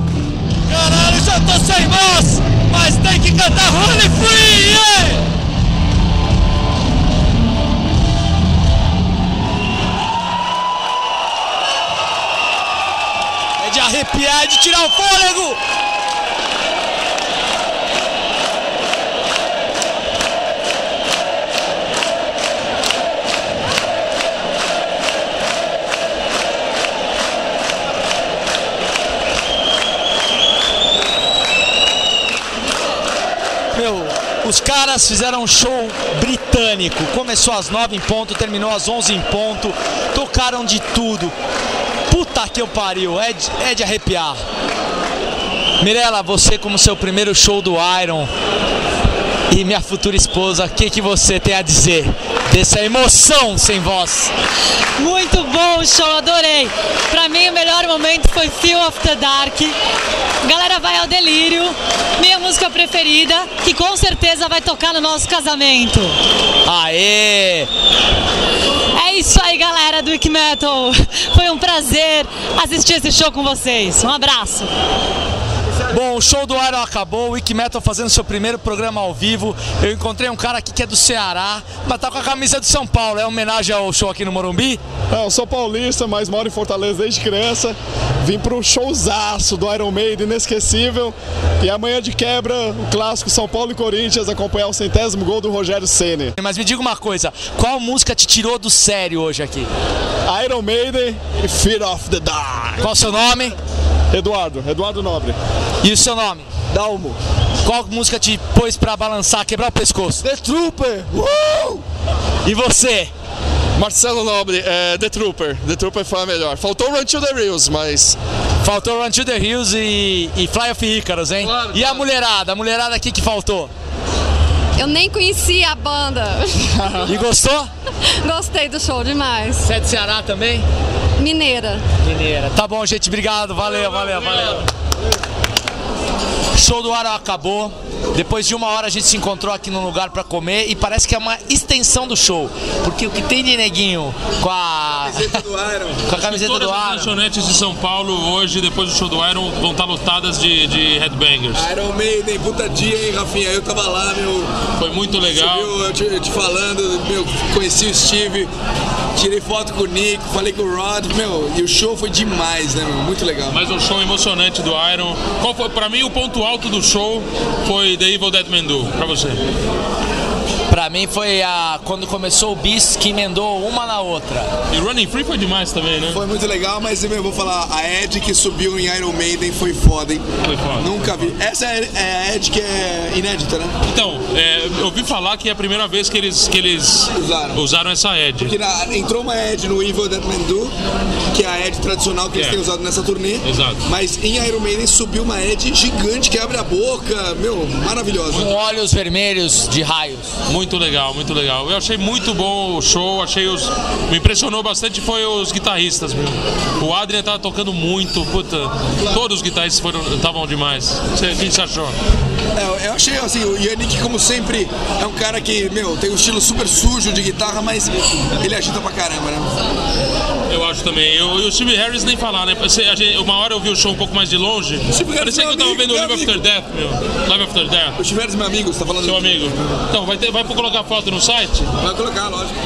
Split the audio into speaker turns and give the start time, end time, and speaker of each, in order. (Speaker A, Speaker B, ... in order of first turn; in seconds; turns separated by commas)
Speaker A: 0.7-5.3, Speaker A: 13.6-15.6, Speaker A: 33.7-41.3, Speaker A: 42.1-44.4, Speaker A: 45.8-48.3, Speaker A: 49.5-54.3, Speaker B: 55.0-59.8, Speaker B: 60.4-66.2, Speaker A: 66.6-67.7, Speaker B: 68.9-74.7, Speaker A: 75.9-84.8, Speaker C: 85.1-96.3, Speaker A: 96.4-99.7, Speaker C: 100.3-103.2, Speaker A: 102.8-103.5, Speaker C: 104.1-105.4, Speaker A: 105.8-106.5, Speaker C: 106.7-107.1, Speaker A: 107.6-110.3, Speaker C: 110.5-111.8, Speaker A: 112.4-113.1, Speaker C: 113.8-118.2, Speaker A: 118.6-123.7, Speaker D: 124.8-127.0, Speaker A: 127.0-127.7, Speaker D: 128.2-129.7, Speaker A: 129.6-130.7, Speaker D: 131.2-131.8, Speaker A: 132.0-134.6, Speaker A: 136.5-145.4, Speaker E: 145.0-146.0, Speaker A: 146.0-147.1, Speaker F: 146.1-151.7, Speaker E: 151.5-154.5, Speaker F: 154.8-155.7, Speaker E: 155.3-158.5, Speaker E: 159.2-163.6, Speaker F: 163.5-169.4, Speaker A: 170.7-174.5, Speaker F: 174.7-176.2, Speaker E: 176.1-183.7, Speaker F: 180.4-181.3, Speaker F: 183.8-188.5, Speaker E: 187.1-187.6, Speaker E: 188.4-190.7, Speaker E: 191.3-198.5, Speaker F: 192.3-192.6, Speaker F: 193.4-193.8, Speaker A: 198.3-200.3, Speaker F: 200.5-212.0, Speaker E: 212.5-219.5, Speaker F: 220.5-228.0, Speaker E: 224.9-226.4, Speaker E: 227.9-229.5, Speaker F: 229.0-231.7, Speaker E: 231.8-232.5